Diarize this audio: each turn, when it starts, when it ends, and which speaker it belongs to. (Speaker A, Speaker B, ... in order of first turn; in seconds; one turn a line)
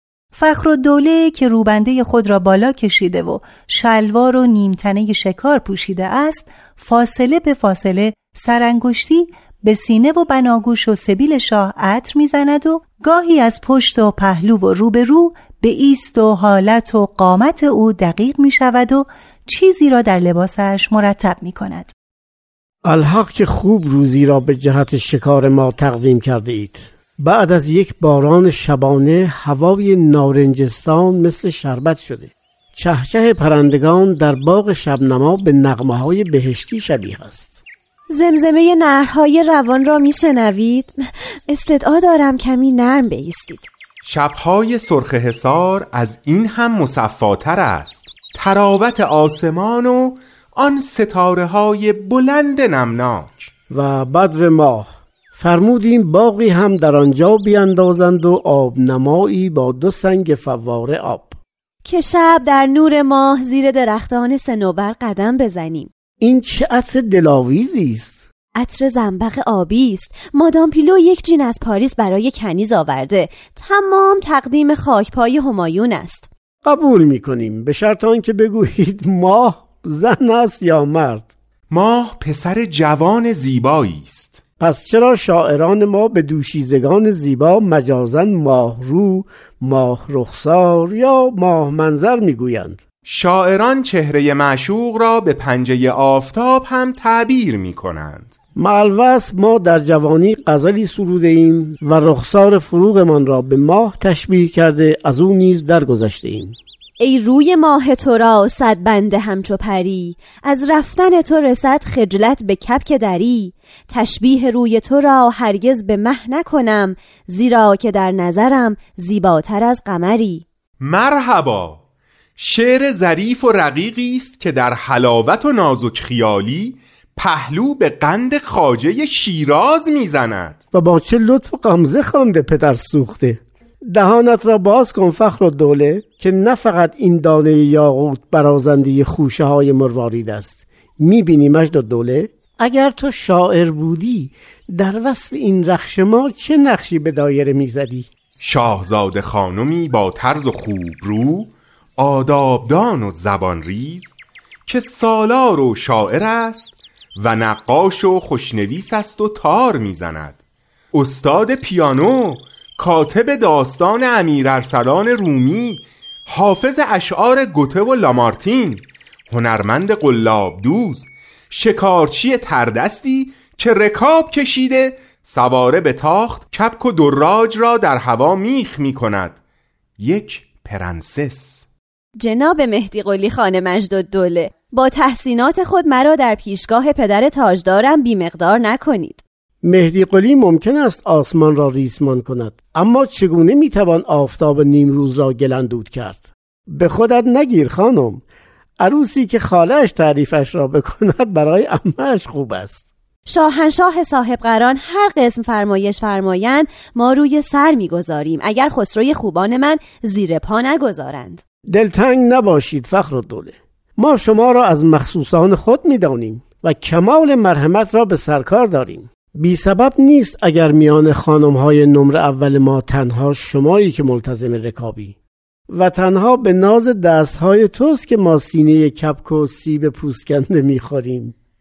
Speaker A: 0.3-21.9
Speaker B: 22.8-37.6
Speaker C: 38.1-43.7
Speaker D: 44.0-53.5
Speaker B: 53.7-61.4
Speaker C: 61.8-65.9
Speaker B: 66.2-68.2
Speaker C: 68.5-76.3
Speaker B: 76.6-81.3
Speaker D: 81.7-84.4
Speaker B: 84.6-92.8
Speaker D: 93.0-98.3
Speaker B: 98.5-106.6
Speaker C: 107.0-120.4
Speaker D: 120.8-121.8
Speaker D: 122.4-130.6
Speaker B: 130.7-148.1
Speaker D: 148.4-154.1
Speaker D: 154.7-160.4
Speaker D: 160.9-179.4
Speaker D: 180.0-181.7
Speaker C: 182.2-189.2
Speaker B: 189.6-198.2
Speaker B: 198.8-202.9
Speaker C: 203.3-211.4
Speaker B: 211.7-225.2
Speaker B: 225.7-231.3